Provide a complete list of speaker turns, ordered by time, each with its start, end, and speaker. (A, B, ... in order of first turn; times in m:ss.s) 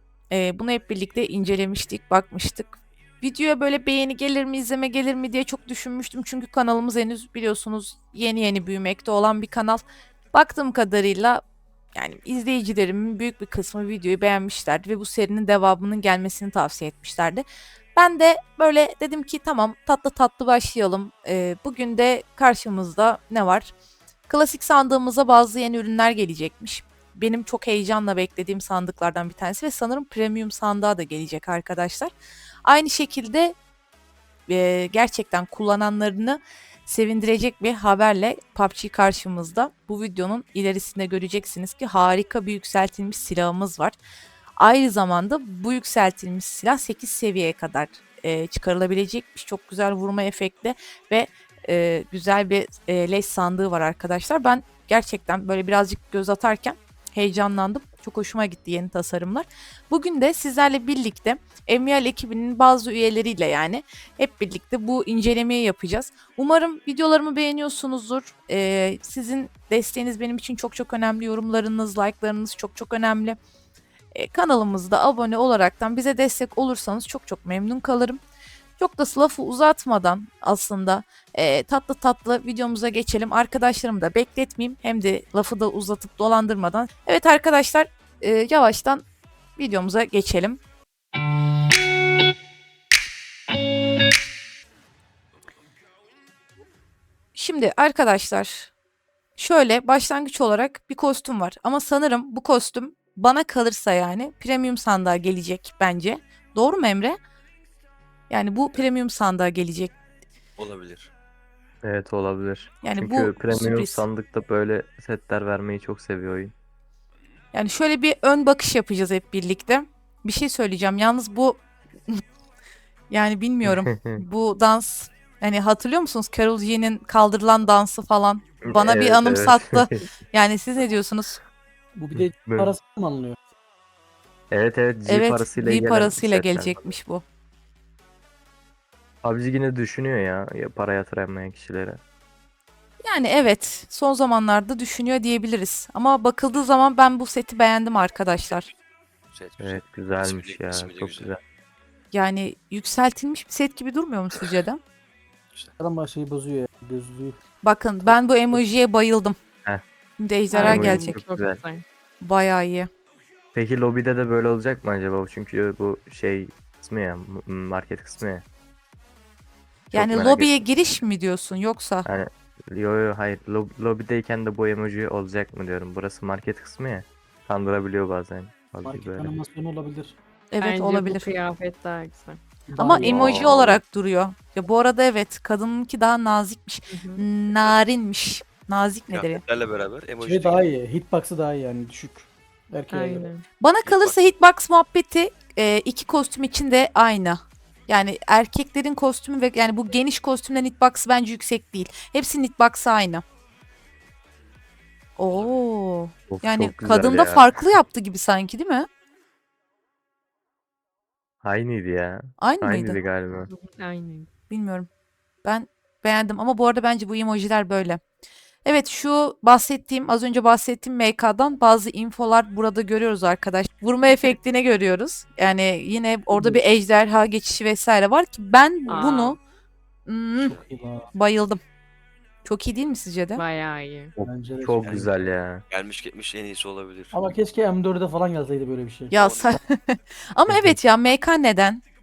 0:00.3-0:11.4 A
0:12.0-0:23.7 A
0:24.3-0:32.1 A
0:32.6-0:33.6 A
0:34.5-0:44.0 A
0:44.6-1:13.4 A
1:14.1-1:18.2 A
1:18.8-1:29.0 A
1:29.6-1:30.6 A
1:37.4-1:38.7 A
1:39.4-1:47.2 A
1:48.3-1:49.9 A
1:50.6-1:51.1 B
1:51.8-1:56.5 C
1:52.8-1:54.1 A
1:57.5-2:02.2 A
2:03.1-2:11.4 A
2:03.6-2:04.2 C
2:08.6-2:10.0 C
2:12.0-2:13.4 D
2:12.2-2:12.7 C
2:14.5-2:16.9 C
2:15.1-2:17.2 A
2:19.2-2:22.0 C
2:23.0-2:28.7 A
2:29.3-2:31.3 B
2:29.6-2:31.4 C
2:32.1-2:34.8 A
2:35.8-2:37.4 D
2:37.6-2:39.4 A
2:38.1-2:38.6 D
2:40.2-2:41.2 A
2:40.5-2:41.8 E
2:40.6-2:41.6 C
2:42.2-2:42.9 A
2:43.5-2:48.4 C
2:49.9-2:52.1 A
2:49.9-2:50.6 C
2:52.0-2:59.3 C
2:58.8-3:00.2 D
3:00.5-3:01.3 A
3:00.6-3:02.4 E
3:02.7-3:03.3 D
3:02.8-3:09.4 A
3:03.0-3:03.7 B
3:03.1-3:03.8 C
3:06.9-3:07.3 E
3:07.5-3:07.8 B
3:09.1-3:10.7 B
3:10.2-3:13.3 D
3:12.9-3:13.4 E
3:13.6-3:23.2 A
3:13.8-3:14.2 B
3:25.2-3:28.9 A
3:25.3-3:25.6 B
3:26.3-3:27.5 C
3:31.4-3:33.5 C
3:32.4-3:33.0 A
3:33.5-3:34.3 E
3:34.5-3:34.9 A
3:35.4-3:38.0 A
3:38.6-3:49.4 A
3:46.3-3:46.6 D
3:48.9-3:49.4 E
3:50.1-3:50.6 A
3:50.4-3:50.6 B
3:50.4-3:51.1 D
3:51.2-3:51.6 A
3:52.4-3:53.4 A
3:53.4-3:54.1 E
3:54.2-3:55.6 C
3:54.2-3:55.1 D
3:54.8-3:55.2 B
3:55.7-3:57.2 B
3:57.1-3:59.1 D
3:59.1-4:01.8 A
3:59.1-3:59.6 B
4:00.5-4:00.8 C